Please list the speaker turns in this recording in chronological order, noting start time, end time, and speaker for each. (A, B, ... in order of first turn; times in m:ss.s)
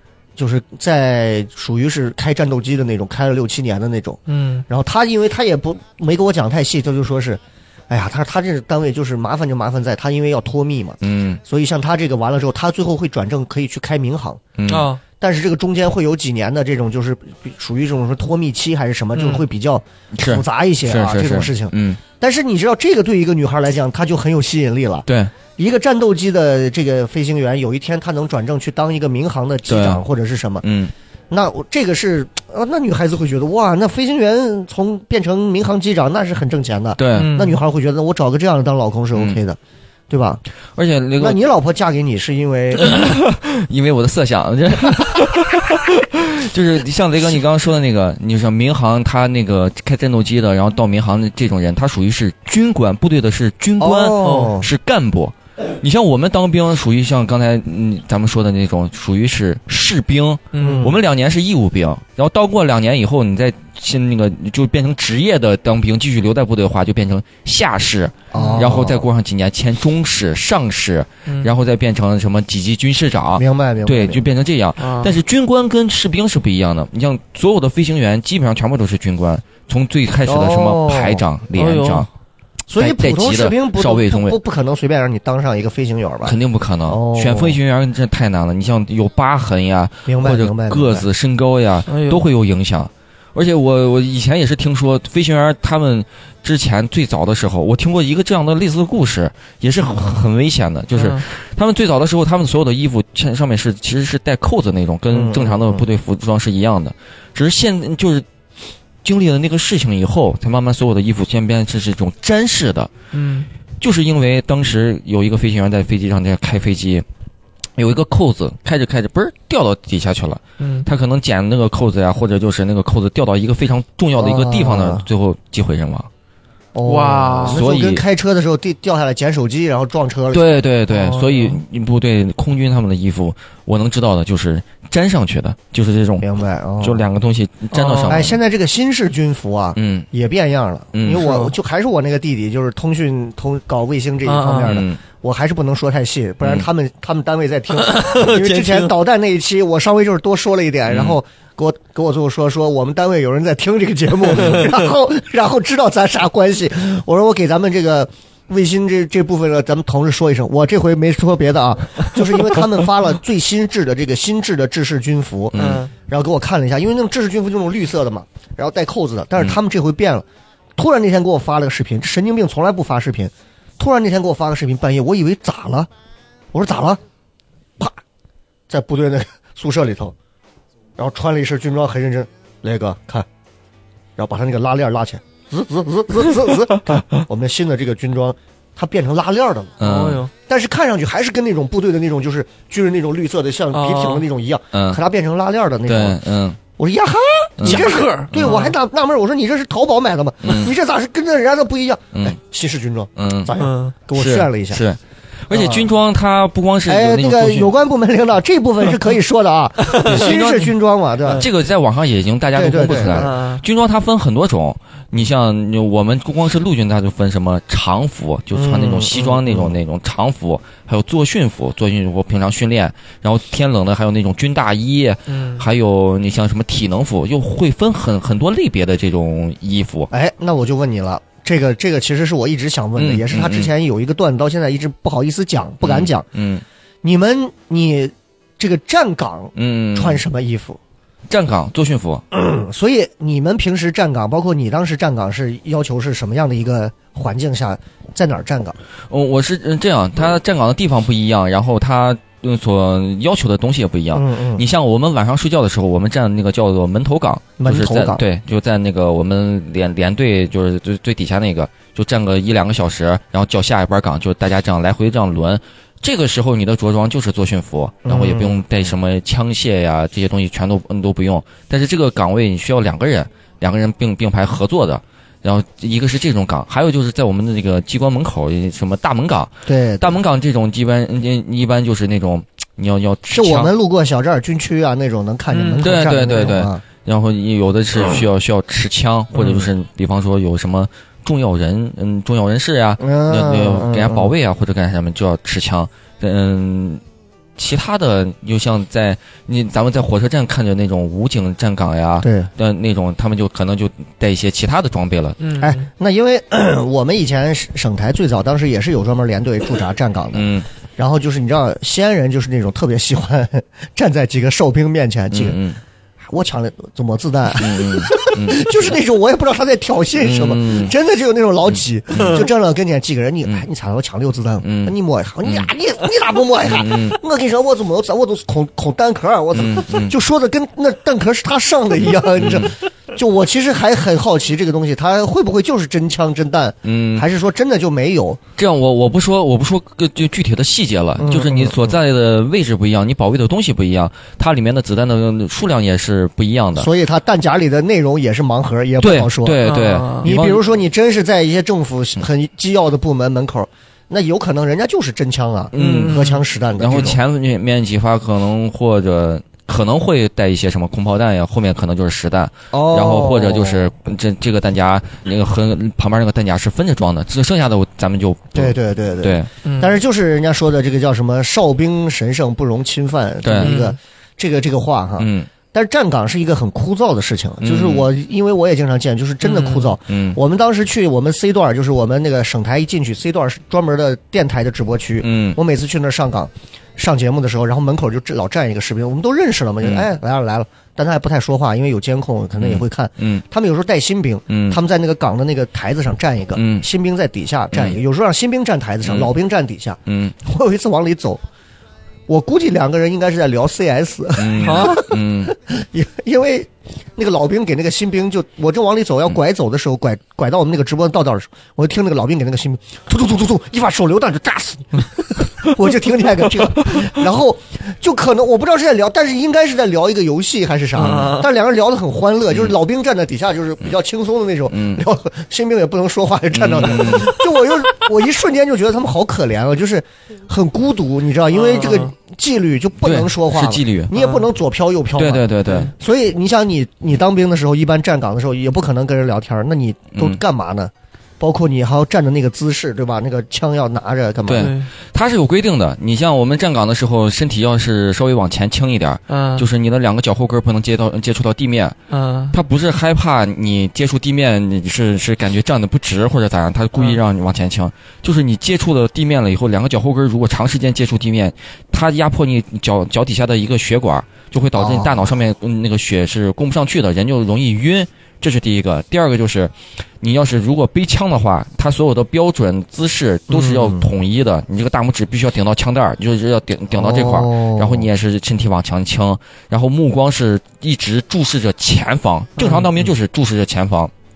0:00.4-0:14.4 A
0:04.3-0:04.6 B
0:11.0-0:11.4 C
0:14.6-0:14.9 C
0:14.7-0:15.0 B
0:15.2-0:30.6 A
0:19.1-0:19.4 B
0:20.1-0:22.0 C
0:25.1-0:25.3 C
0:29.7-0:30.0 C
0:30.6-0:30.9 C
0:31.3-0:39.6 A
0:37.0-0:37.3 C
0:37.1-0:37.6 B
0:40.1-0:40.4 A
0:40.8-0:41.4 C
0:41.2-0:42.9 A
0:42.7-1:22.1 C
0:53.8-0:54.7 A
0:54.2-0:54.6 B
1:00.5-1:00.9 B
1:00.6-1:00.9 A
1:08.3-1:09.0 A
1:08.3-1:08.8 B
1:13.4-1:14.2 A
1:14.8-1:15.1 B
1:20.2-1:21.2 A
1:21.5-1:22.1 B
1:22.7-1:26.4 A
1:22.8-1:24.4 C
1:26.2-1:48.2 C
1:26.9-1:27.6 A
1:30.0-1:31.0 A
1:31.9-1:32.2 B
1:40.9-1:41.2 B
1:45.1-1:45.8 A
1:49.0-1:52.9 C
1:53.1-1:53.5 B
1:53.8-1:57.0 C
1:57.8-2:06.1 C
2:00.6-2:00.9 B
2:04.2-2:05.0 A
2:06.7-2:10.5 A
2:06.8-2:07.6 B
2:07.4-2:08.0 C
2:10.3-2:16.3 C
2:10.9-2:11.6 B
2:16.2-2:17.0 A
2:16.8-2:18.4 C
2:17.7-2:18.2 B
2:18.1-2:50.2 A
2:19.8-2:20.1 C
2:20.9-2:21.3 C
2:21.2-2:21.5 B
2:24.2-2:24.8 B
2:24.6-2:25.0 C
2:27.8-2:28.9 B
2:30.9-2:31.2 C
2:45.5-2:45.8 C
2:45.5-2:45.9 B
2:50.8-2:55.9 A
2:56.5-2:57.0 A
2:58.7-3:00.1 A
3:01.0-3:03.2 A
3:04.2-3:09.8 A
3:09.8-3:10.2 C
3:09.8-3:10.3 B
3:10.5-3:16.2 A
3:13.7-3:14.2 B
3:14.7-3:15.0 C
3:15.8-3:16.6 C
3:16.8-3:24.8 A
3:17.6-3:18.6 C
3:17.6-3:18.8 B
3:20.4-3:20.7 C
3:23.2-3:23.5 C
3:23.6-3:23.9 B
3:24.1-3:27.7 C
3:25.5-3:25.9 A
3:26.8-3:31.4 A
3:29.9-3:30.5 B
3:30.0-3:30.7 C
3:31.3-3:50.1 C
3:32.5-3:33.3 A
3:33.0-3:33.6 B
3:38.5-3:39.8 A
3:45.3-3:45.6 B
3:50.1-3:56.2 A
3:53.0-3:53.7 C
3:55.8-3:56.6 C
3:57.0-4:00.8 A
3:59.6-4:00.2 C
4:01.3-4:02.2 C
4:02.3-4:08.8 A
4:09.1-4:43.7 C
4:14.1-4:14.6 A
4:17.6-4:18.2 A
4:28.0-4:28.6 A
4:39.6-4:40.2 A
4:43.3-4:46.8 A
4:45.5-4:46.6 B
4:45.8-4:57.0 C
4:49.4-4:49.6 A
4:53.0-4:54.3 A
4:57.6-5:05.4 C
5:02.2-5:02.5 A
5:05.4-5:05.8 B
5:05.6-5:15.6 A
5:10.3-5:10.7 C
5:15.3-5:15.8 C
5:16.3-5:38.4 A
5:17.6-5:18.9 C
5:20.2-5:20.9 C
5:22.1-5:22.5 C
5:22.1-5:22.4 B
5:24.6-5:24.9 C
5:26.6-5:27.2 C
5:29.5-5:30.2 C
5:32.3-5:32.7 C
5:36.8-5:37.2 C
5:38.6-5:46.9 C
5:41.2-5:41.9 A
5:46.8-5:49.6 A
5:49.0-5:50.6 C
5:49.6-5:50.3 B
5:50.2-5:57.2 A
5:55.7-5:56.2 C
5:55.7-5:56.4 B
5:56.7-6:09.5 C
6:02.7-6:03.8 A
6:08.5-6:41.4 A
6:09.6-6:10.0 B
6:13.4-6:13.8 C
6:13.6-6:14.0 B
6:15.2-6:15.5 C
6:17.6-6:18.1 C
6:19.4-6:19.9 B
6:20.1-6:20.4 C
6:25.2-6:25.6 C
6:32.6-6:33.4 C
6:34.5-6:34.8 C
6:36.5-6:36.8 C
6:37.7-6:38.0 C
6:39.0-6:39.3 C
6:40.1-6:40.4 C
6:42.3-7:24.7 A
6:44.4-6:45.5 C
6:44.6-6:45.0 B
7:00.9-7:01.5 B
7:01.0-7:01.3 C
7:04.7-7:05.0 C
7:06.5-7:07.4 C
7:11.5-7:12.1 B
7:13.0-7:14.1 C
7:14.1-7:14.4 B
7:15.2-7:15.9 C
7:15.6-7:15.9 B
7:20.1-7:20.4 C
7:24.4-7:32.0 C
7:24.5-7:24.9 B
7:29.3-7:29.7 B
7:32.1-7:32.5 B
7:32.5-8:04.1 C
7:44.7-7:45.2 A
7:53.5-7:54.1 A
7:56.9-7:58.0 A
8:02.6-8:02.9 B